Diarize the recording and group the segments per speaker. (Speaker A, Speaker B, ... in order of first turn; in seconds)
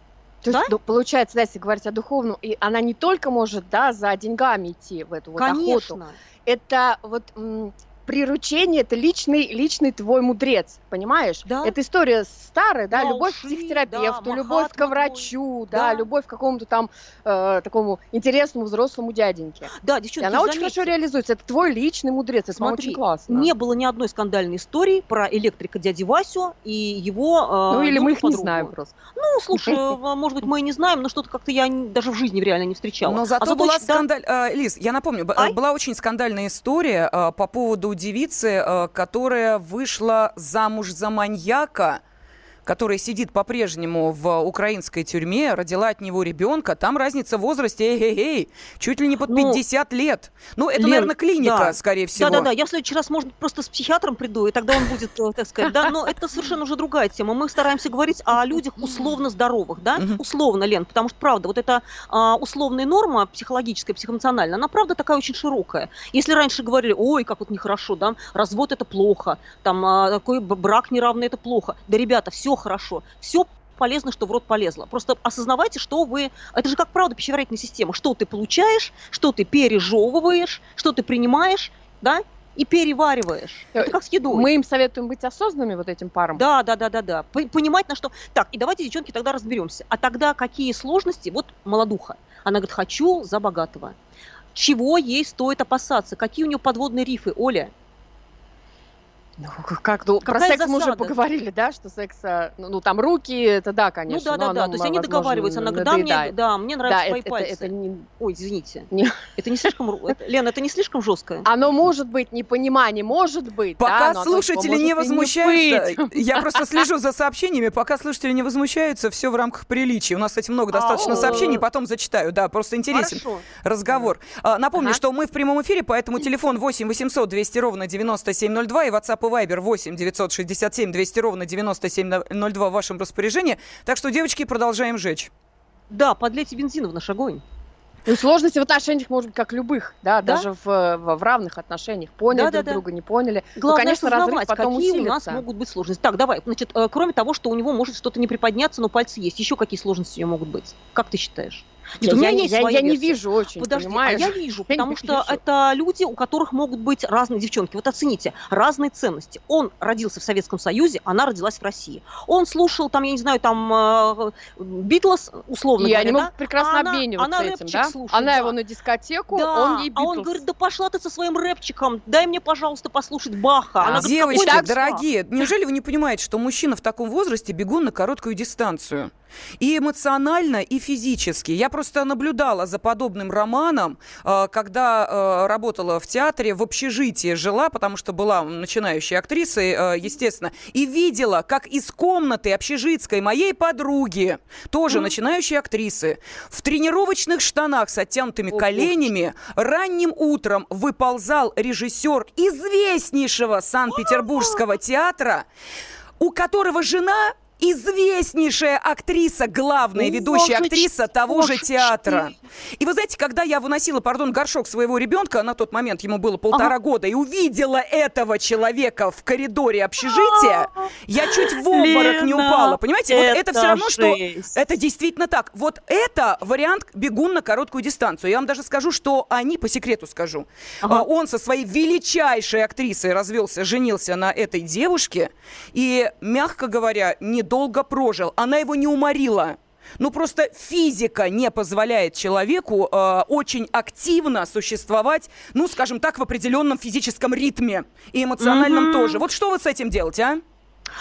Speaker A: 0.4-23.5, 27.7-28.9, 83.8-86.4, 99.4-106.3, 106.9-108.1, 108.9-109.2, 111.5-116.5, 120.8-121.5, 138.1-145.4, 152.0-155.4, 165.8-170.4, 173.8-174.7, 198.5-198.9
Speaker B: 0.5-0.7, 5.4-6.2, 11.4-11.8, 12.9-16.1, 19.8-20.9, 22.6-34.0, 49.3-49.6, 50.8-84.5, 86.3-94.0, 94.5-97.7, 100.2-101.2, 104.1-111.5, 120.9-121.6, 122.9-123.5, 135.9-137.4, 142.3-142.8, 143.6-168.6, 169.3-175.0, 203.9-204.6, 210.0-212.3, 220.0-224.6, 248.4-249.2
Speaker C: 33.1-42.0, 42.6-52.5, 113.8-135.3, 173.9-205.4, 206.2-250.4